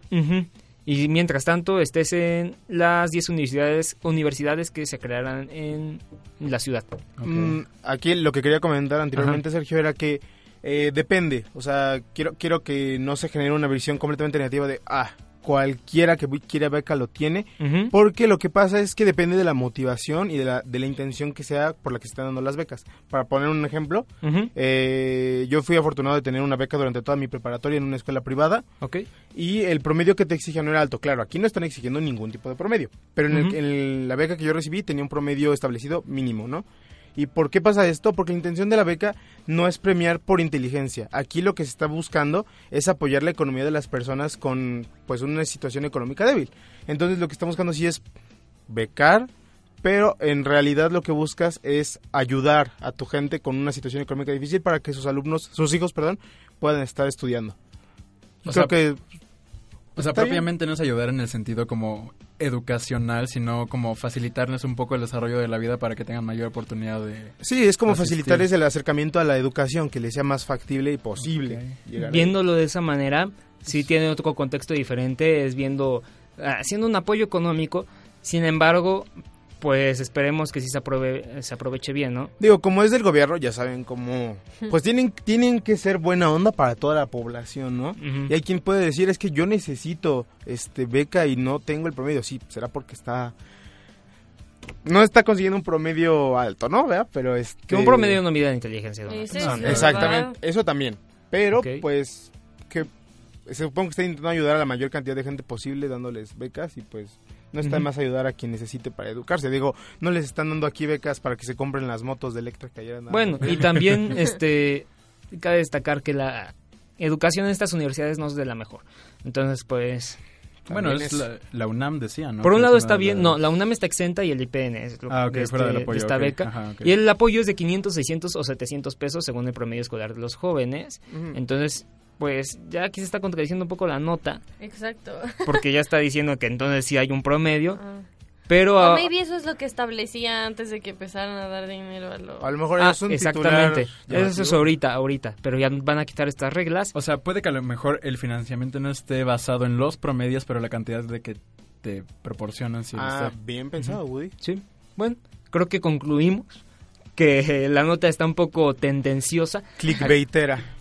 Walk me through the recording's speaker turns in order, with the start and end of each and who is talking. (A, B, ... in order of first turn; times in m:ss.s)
0:00.1-0:07.0 A
0:07.2-0:07.6 B
0:07.2-0:28.6 C
0:17.6-0:17.9 A
0:24.2-0:24.5 A
0:28.8-0:29.1 A
0:29.3-0:48.0 C
0:33.3-0:33.6 A
0:48.7-0:49.3 C
0:49.8-0:57.6 C
0:58.4-0:58.7 B
0:58.5-0:59.0 C
1:00.0-1:07.4 B
1:00.0-1:00.5 C
1:07.4-1:12.4 C
1:07.9-1:08.4 B
1:11.2-1:11.8 B
1:12.0-1:22.3 A
1:22.4-1:33.4 C
1:28.0-1:28.3 A
1:34.8-1:38.2 C
1:37.7-1:40.2 A
1:39.1-1:40.4 D
1:39.4-1:39.9 B
1:39.6-1:42.9 C
1:41.5-1:41.8 A
1:43.5-1:53.7 C
1:53.1-2:00.2 A
2:00.7-2:01.3 C
2:00.7-2:03.4 B
2:02.4-2:14.4 A
2:05.1-2:06.9 B
2:11.1-2:11.4 C
2:14.6-2:15.6 D
2:15.4-2:17.8 A
2:17.8-2:18.0 D
2:18.5-2:19.1 A
2:18.8-2:22.5 D
2:22.4-2:24.7 C
2:22.8-2:26.9 A
2:26.9-2:33.4 B
2:32.9-2:34.4 C
2:34.4-2:36.6 A
2:37.2-2:40.2 A
2:39.8-2:40.7 C